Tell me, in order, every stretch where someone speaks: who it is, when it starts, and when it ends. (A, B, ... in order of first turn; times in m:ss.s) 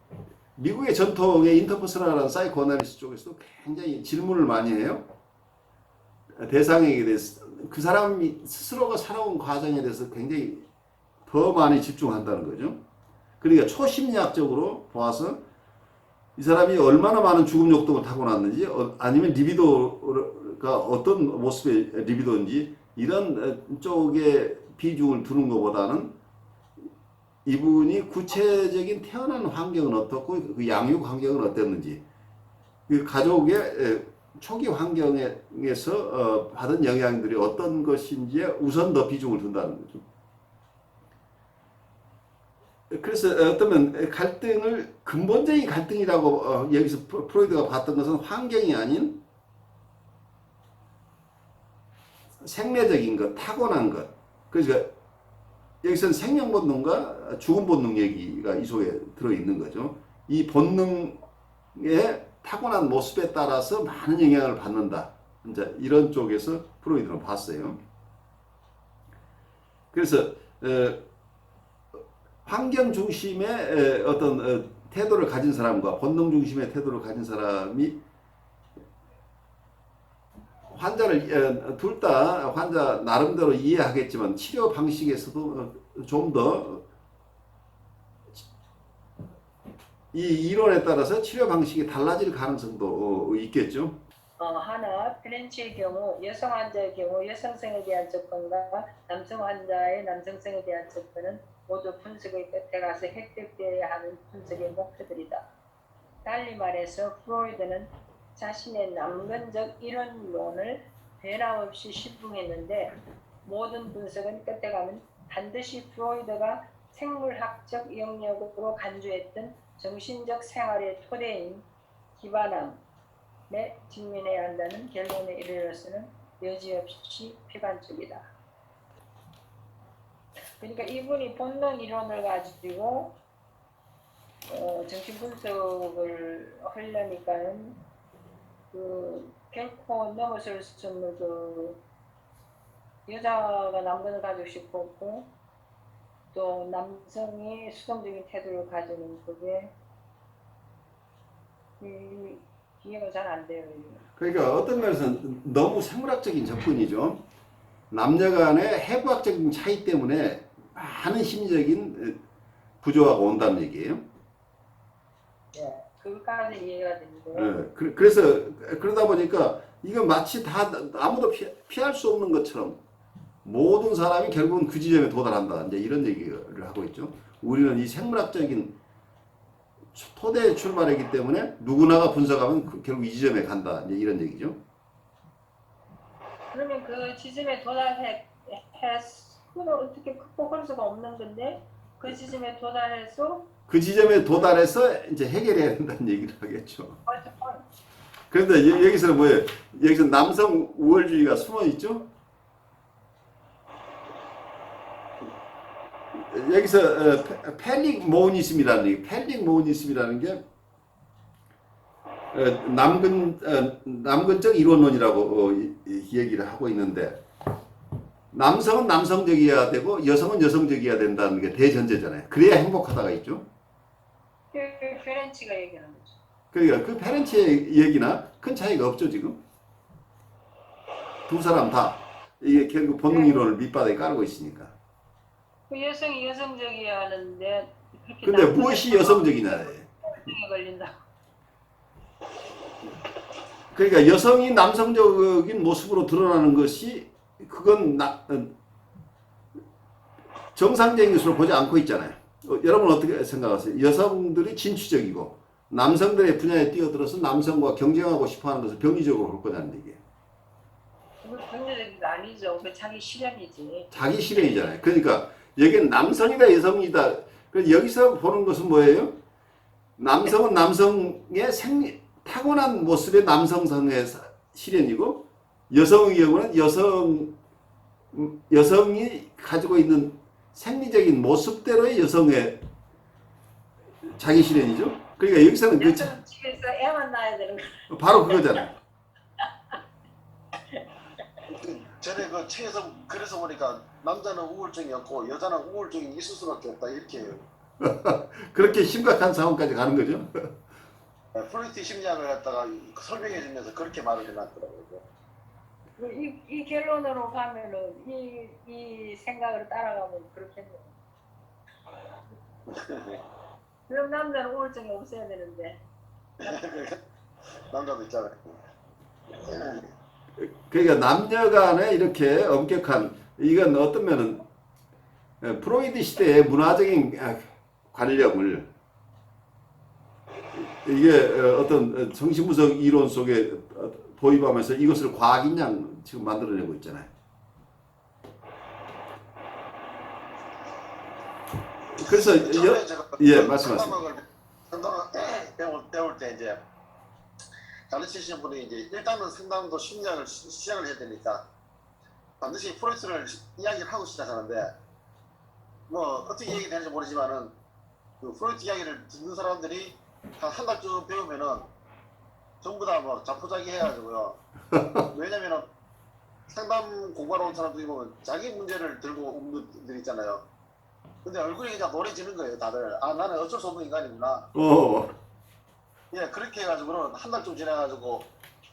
0:00.6-0:05.0 A
0:06.4-0:10.7 A
0:11.3-0:12.8 A
0:13.4-0:15.4 A
0:16.4-0:26.1 A
0:27.4-0:32.0 A
0:32.9-0:40.0 A
0:42.9-0:49.2 A
0:52.4-0:54.9 A
0:55.8-1:01.2 A
1:01.7-1:07.8 A
1:09.9-1:11.0 A
1:12.4-1:18.0 A
1:20.7-1:26.8 A
1:30.1-1:34.0 A
1:34.4-1:45.5 B
1:46.2-1:52.9 B
1:53.4-2:02.8 B
2:03.5-2:08.3 B
2:10.6-2:13.2 B
2:14.5-2:17.8 B
2:18.7-2:21.8 B
2:23.0-2:25.3 B
2:26.3-2:29.7 B
2:31.8-2:34.0 B
2:34.2-2:37.2 A
2:37.9-2:42.2 A
2:42.8-2:44.0 A
2:45.5-2:47.6 B
2:47.3-2:52.8 A
2:53.4-2:58.7 A
2:59.9-3:04.6 A
3:06.5-3:13.5 B
3:13.7-3:17.0 A
3:17.0-3:17.6 B
3:18.3-3:22.0 A
3:26.1-3:30.4 A
3:32.3-3:37.2 A
3:38.3-3:43.4 A
3:44.5-3:46.2 B
3:46.5-3:49.4 A
3:51.3-3:54.8 A
3:53.1-3:53.4 B
3:55.7-4:00.9 B
3:58.2-3:59.9 A
4:03.7-4:08.5 A
4:10.5-4:20.0 A
4:21.2-4:23.9 B
4:23.9-4:29.2 A
4:30.0-4:37.3 A
4:38.1-4:42.6 A
4:44.0-4:46.1 A
4:45.7-4:48.7 B
4:47.9-4:48.7 A
4:51.5-4:57.4 C
4:57.8-5:00.5 A
5:01.3-5:05.0 C
5:06.0-5:10.9 B
5:12.7-5:13.2 C
5:13.9-5:15.8 B
5:16.4-5:17.0 C
5:17.7-5:18.5 C
5:19.3-5:19.9 C
5:20.4-5:24.4 A
5:25.4-5:28.7 A
5:30.5-5:37.1 A
5:41.9-5:44.0 A
5:42.0-5:46.6 C
5:47.9-5:51.4 C
5:52.4-5:54.7 C
5:55.9-5:57.5 C
5:58.2-6:01.7 C
6:02.6-6:04.4 C
6:05.0-6:05.7 C
6:06.5-6:10.4 C
6:11.2-6:14.5 C
6:14.5-6:15.1 A
6:16.1-6:18.3 C